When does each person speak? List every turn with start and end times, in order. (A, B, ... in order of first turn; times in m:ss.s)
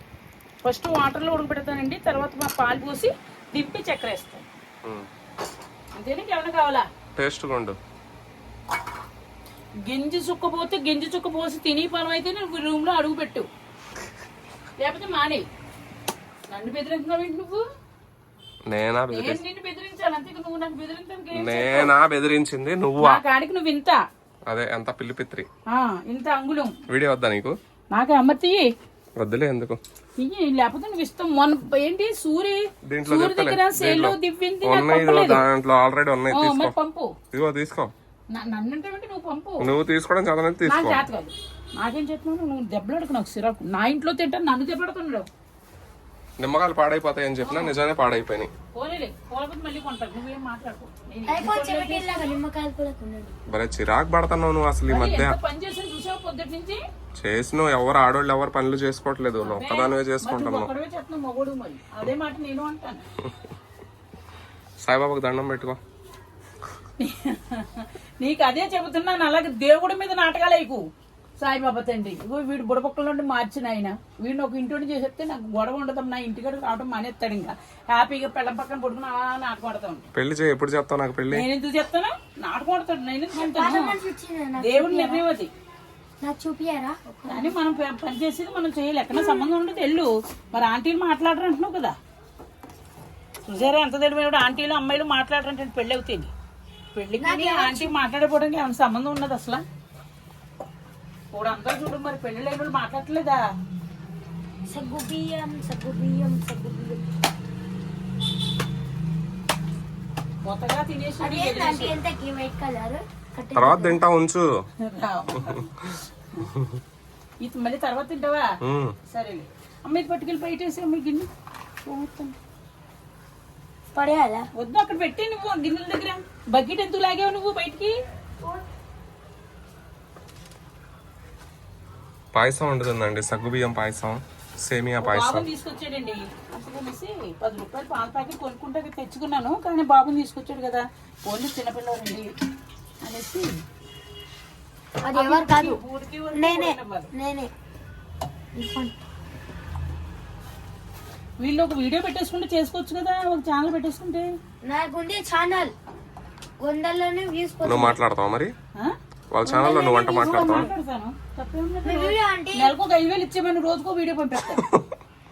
0:00.6-0:04.4 A
0:06.0-0:06.9 A
0:07.2-0:07.8 B
0:09.8-0:13.5 A
0:14.8-0:15.5 A
0:16.5-0:17.6 A
0:18.7-0:19.4 B
0:19.1-0:21.9 A
0:21.3-0:23.2 B
0:23.0-0:24.0 A
0:24.5-0:25.5 B
0:25.7-0:26.8 A
0:26.9-0:27.6 B
0:27.9-0:28.7 A
0:29.2-0:29.8 B
0:30.2-0:35.4 A
0:32.9-0:36.7 B
0:36.3-0:37.1 A
0:37.3-0:37.9 B
0:38.3-0:39.7 A
0:39.6-0:41.0 B
0:40.7-0:45.3 A
0:46.4-0:48.5 B
0:47.4-0:47.8 A
0:48.8-0:52.4 A
0:51.3-0:53.4 C
0:53.5-0:55.4 B
0:54.9-0:56.8 A
0:57.2-1:00.7 B
0:59.4-1:03.0 A
1:04.8-1:05.8 B
1:07.0-1:10.8 A
1:11.4-1:20.0 A
1:20.1-1:21.4 B
1:21.3-1:23.9 A
1:23.3-1:25.2 C
1:24.6-1:25.5 A
1:26.2-1:27.6 C
1:27.3-1:32.0 A
1:29.1-1:29.5 C
1:33.4-1:36.3 A
1:36.9-1:39.6 A
1:37.2-1:37.9 C
1:41.3-1:43.4 A
1:44.7-1:47.1 C
1:50.4-1:52.0 A
1:51.2-1:54.0 C
1:53.5-1:54.4 B
1:54.8-1:56.5 A
1:57.4-1:58.5 A
1:58.6-1:58.9 B
1:59.1-2:01.3 A
2:01.8-2:02.3 A
2:03.9-2:04.5 C
2:04.6-2:07.9 A
2:12.3-2:15.4 B
2:15.0-2:22.3 A
2:23.0-2:23.5 A
2:25.0-2:25.8 C
2:25.1-2:27.1 A
2:26.3-2:27.5 C
2:28.5-2:28.9 C
2:31.4-2:34.3 A
2:34.6-2:35.7 C
2:36.6-2:38.0 C
2:37.6-2:38.5 B
2:39.3-2:40.7 B
2:39.5-2:40.7 C
2:39.5-2:44.7 A
2:41.8-2:42.7 C